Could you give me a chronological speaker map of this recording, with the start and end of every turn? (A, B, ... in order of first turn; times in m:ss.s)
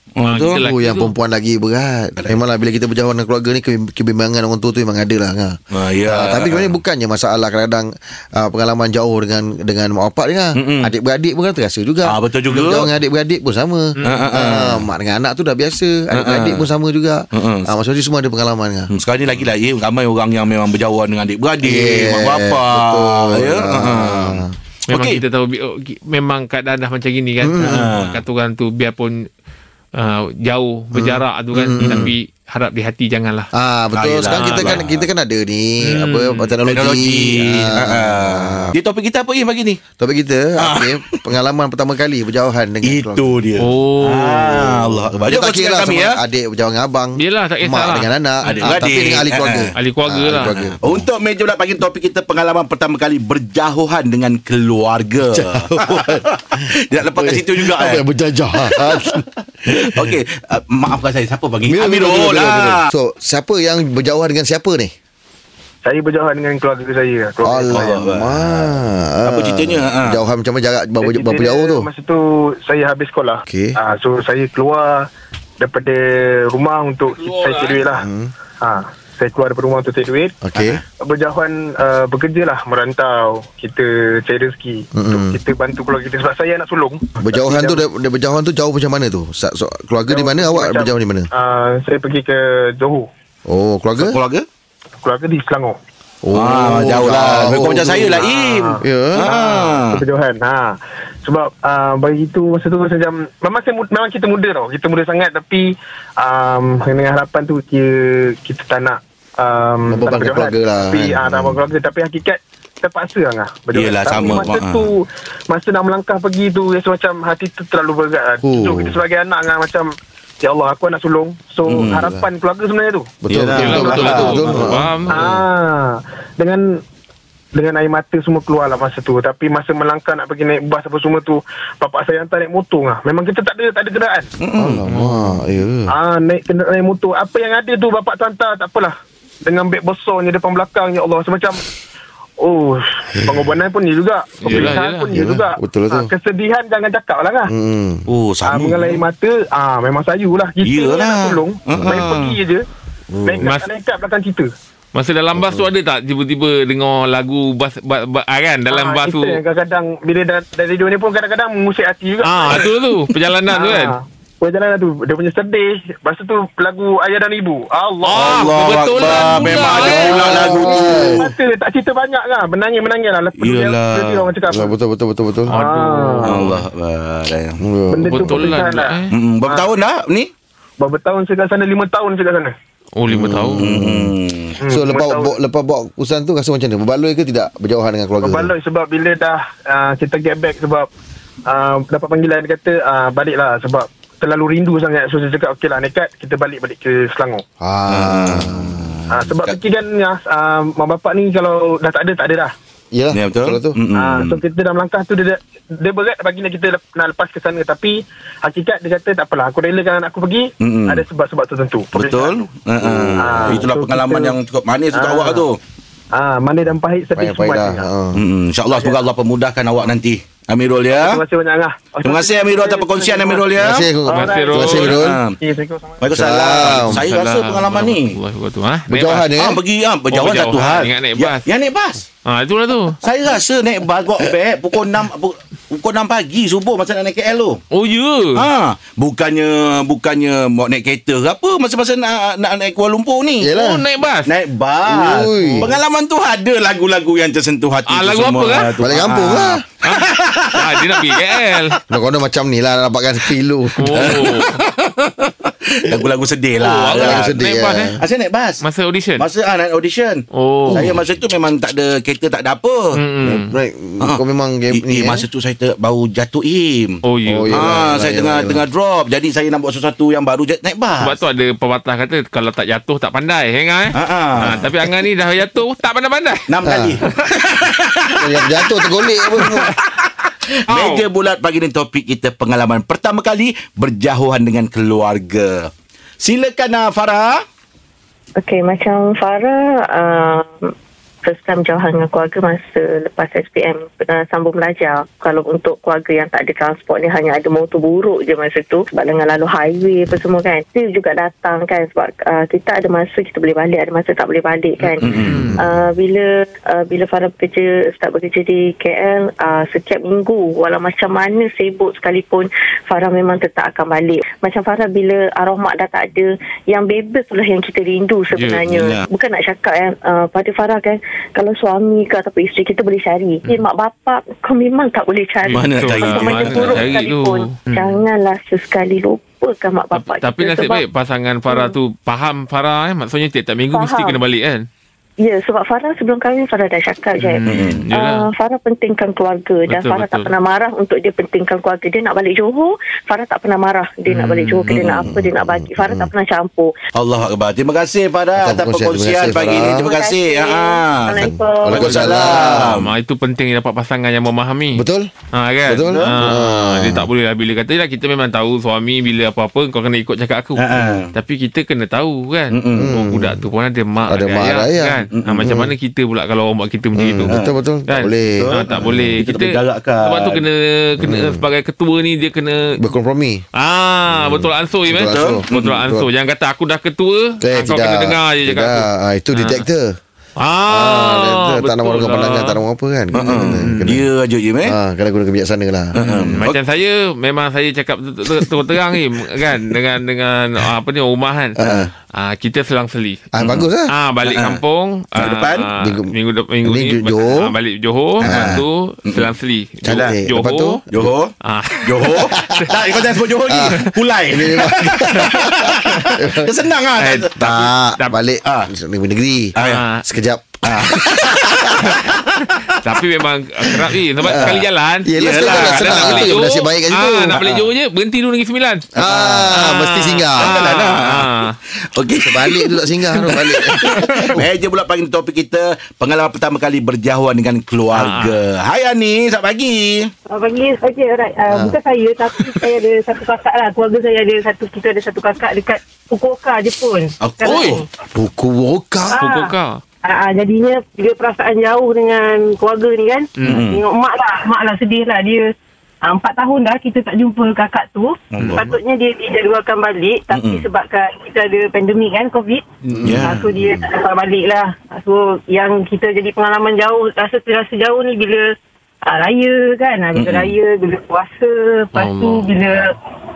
0:00.2-0:00.6 A
0:00.3-0:01.1 B
0:00.6-0:18.9 C
0:05.7-0:06.8 A
0:10.6-0:10.9 A
0:12.0-0:12.9 A
0:14.0-0:14.3 B
0:14.0-0:14.9 A
0:16.1-0:16.7 A
0:17.3-0:17.7 A
0:18.9-0:25.2 A
0:21.6-0:24.6 C
0:24.9-0:29.3 B
0:27.4-0:27.9 C
0:27.6-0:28.2 A
0:30.0-0:33.5 B
0:30.9-0:32.1 C
0:31.8-0:32.1 A
0:33.5-0:38.8 C
0:33.9-0:35.1 A
0:34.3-0:34.8 B
0:35.9-0:36.6 B
0:36.7-0:39.8 A
0:40.0-0:43.4 C
0:40.6-0:41.3 A
0:42.8-0:46.2 A
0:43.6-0:44.8 B
0:44.7-0:51.1 C
0:47.2-0:48.7 B
0:48.5-0:49.7 A
0:49.8-0:50.6 B
0:50.5-0:58.0 A
0:55.3-1:00.2 C
0:58.6-1:02.9 A
1:01.7-1:04.9 C
1:05.8-1:08.0 D
1:07.4-1:11.8 C
1:07.7-1:08.7 A
1:09.2-1:10.2 A
1:11.0-1:15.1 D
1:13.5-1:13.7 C
1:15.6-1:18.0 D
1:17.1-1:17.9 B
1:18.0-1:18.3 C
1:18.6-1:20.4 D
1:20.4-1:20.8 C
1:20.6-1:20.8 A
1:21.0-1:27.8 D
1:25.0-1:25.3 C
1:27.2-1:31.3 C
1:30.1-1:33.1 D
1:33.5-1:34.2 C
1:34.0-1:34.5 A
1:35.0-1:35.8 D
1:36.2-1:38.2 C
1:36.3-1:40.0 A
1:38.1-2:04.1 D
1:38.8-1:39.3 C
1:49.9-1:51.6 C
1:53.7-1:54.9 A
1:58.4-1:58.9 C
2:01.7-2:02.0 A
2:01.8-2:02.2 C
2:03.2-2:05.4 C
2:03.3-2:04.8 A
2:03.6-2:05.2 B
2:05.1-2:06.7 D
2:07.5-2:14.3 D
2:14.4-2:14.8 A
2:14.6-2:15.9 C
2:14.9-2:15.4 B
2:15.9-2:18.9 D
2:19.4-2:21.6 D
2:22.4-2:27.5 D
2:23.2-2:23.5 C
2:24.4-2:25.1 B
2:25.1-2:26.1 C
2:27.5-2:28.1 C
2:28.1-2:29.1 A
2:28.4-2:32.6 D
2:30.6-2:32.4 A
2:31.7-2:32.2 C
2:33.1-2:33.4 C
2:33.2-2:34.5 D
2:33.4-2:33.7 B
2:34.9-2:39.4 B
2:35.4-2:35.7 C
2:38.7-2:42.7 D
2:42.2-2:44.0 B
2:43.5-2:48.4 D
2:48.1-2:50.5 B
2:48.1-2:51.4 A
2:49.2-2:49.7 D
2:49.7-2:51.2 C
2:50.5-2:54.7 D
2:53.4-2:54.3 A
2:54.5-2:55.6 C
2:55.5-2:56.6 B
2:55.5-2:56.4 D
2:56.3-2:57.6 A
2:57.6-2:58.5 C
2:57.9-2:59.7 D
2:58.0-2:59.1 B
2:59.1-3:00.3 A
3:00.8-3:02.5 D
3:03.0-3:03.7 B
3:03.1-3:04.1 C
3:03.6-3:04.6 A
3:04.6-3:05.4 D
3:04.7-3:08.5 C
3:08.2-3:10.9 D
3:11.5-3:17.4 D
3:17.6-3:19.1 C
3:17.9-3:19.0 A
3:19.1-3:22.5 D
3:22.9-3:23.8 C
3:23.1-3:24.4 A
3:23.9-3:32.3 D
3:30.6-3:31.0 A
3:31.9-3:35.6 A
3:32.8-3:33.6 C
3:33.2-3:34.4 D
3:34.9-3:35.5 D
3:36.1-3:37.9 D
3:37.2-3:38.2 C
3:38.1-3:41.2 A
3:38.7-3:39.0 D
3:40.9-3:43.5 D
3:42.0-3:43.9 A
3:43.6-3:45.2 C
3:44.1-3:46.0 D
3:44.1-3:45.1 B
3:44.5-3:45.4 A
3:46.0-3:48.2 A
3:46.1-3:47.0 C
3:46.8-3:49.3 B
3:48.9-3:49.6 C
3:49.3-3:52.0 A
3:50.1-3:51.5 B
3:52.2-3:53.0 B
3:53.0-3:57.6 A
3:57.7-3:58.5 B
3:58.4-4:03.5 A
4:03.4-4:03.8 C
4:03.5-4:04.3 B
4:04.3-4:11.8 A
4:04.9-4:05.8 C
4:07.9-4:08.8 B
4:08.8-4:09.6 C
4:09.8-4:11.8 B
4:11.9-4:14.3 C
4:13.8-4:14.6 B
4:13.9-4:17.4 A
4:16.6-4:18.0 B
4:16.9-4:18.0 C
4:18.0-4:18.6 A
4:18.6-4:19.3 B
4:19.2-4:23.0 A
4:20.3-4:20.9 B
4:20.7-4:21.0 C
4:23.0-4:23.5 B
4:23.2-4:25.2 C
4:24.7-4:31.2 A
4:27.0-4:27.7 B
4:27.3-4:28.6 C
4:31.0-4:36.4 B
4:33.9-4:34.7 A
4:34.4-4:34.7 C
4:36.5-4:47.4 A
4:36.6-4:37.0 C
4:38.2-4:39.7 C
4:40.7-4:41.1 B
4:48.4-4:50.7 E
4:51.2-5:30.8 E
5:04.8-5:05.6 B
5:05.0-5:05.6 A
5:18.3-5:18.6 B
5:18.6-5:19.0 A
5:25.5-5:28.0 B
5:25.5-5:26.9 A
5:30.0-5:34.7 B
5:31.5-5:31.8 E
5:33.7-5:34.2 E
5:35.2-5:46.7 E
5:37.2-5:38.3 B
5:37.4-5:37.8 A
5:39.7-5:40.3 B
5:44.1-5:44.8 B
5:44.7-5:45.2 A
5:45.0-5:46.1 C
5:47.0-5:52.9 A
5:48.4-5:49.9 C
5:49.3-5:52.4 E
5:51.2-5:52.8 C
5:52.6-6:12.8 B
5:54.8-5:55.1 C
5:55.6-5:57.1 C
5:55.8-5:56.2 A
6:00.6-6:01.1 A
6:02.5-6:02.9 A
6:02.8-6:03.4 C
6:04.1-6:05.7 C
6:05.1-6:05.5 A
6:07.0-6:09.2 C
6:07.3-6:07.5 A
6:08.4-6:10.4 A
6:11.0-6:11.4 C
6:12.8-6:13.4 C
6:13.6-6:19.6 B
6:14.1-6:16.1 C
6:15.1-6:15.7 A
6:17.4-6:20.0 C
6:20.4-6:22.6 B
6:20.7-6:24.1 C
6:23.1-6:24.8 A
6:23.6-6:23.9 B
6:24.7-6:26.3 C
6:26.0-6:26.6 A
6:26.0-6:40.8 B
6:31.6-6:31.9 C
6:31.6-6:31.9 A
6:33.3-6:33.9 C
6:34.2-6:34.6 A
6:35.2-6:35.7 A
6:35.8-6:37.6 C
6:38.2-6:39.3 A
6:38.2-6:38.6 C
6:39.8-6:41.1 C
6:39.8-6:40.2 A
6:40.9-6:41.3 A
6:41.4-6:42.8 B
6:41.8-6:47.5 A
6:42.1-6:42.6 C
6:43.5-6:46.7 C
6:43.7-6:44.0 B
6:45.2-6:45.5 B
6:47.0-6:48.2 B
6:47.4-6:51.6 C
6:48.4-6:48.7 A
6:49.6-6:49.8 A
6:49.6-6:50.0 B
6:50.7-6:52.2 A
6:51.8-7:01.6 B
6:54.2-6:54.6 A
6:54.2-6:57.6 C
6:55.2-6:56.4 A
6:57.3-6:57.7 A
6:59.0-7:00.6 C
6:59.0-6:59.5 A
7:00.4-7:01.3 A
7:02.0-7:10.1 A
7:02.2-7:04.4 C
7:03.8-7:04.4 B
7:07.9-7:08.4 B
7:10.3-7:17.8 F
7:11.5-7:11.8 C
7:17.2-7:17.8 A
7:17.5-7:17.8 B
7:18.2-7:19.2 C
7:19.1-7:25.5 F
7:19.1-7:19.8 B
7:23.4-7:23.7 B
7:23.4-7:23.8 A
7:26.0-7:32.6 F
7:28.3-7:28.8 A
7:28.4-7:28.7 B
7:30.3-7:30.7 A
7:32.9-7:33.2 B
7:33.0-7:33.8 A
7:33.0-7:33.3 C
7:33.2-7:38.5 F
7:39.0-7:43.0 F
7:40.1-7:40.6 A
7:41.9-7:42.5 B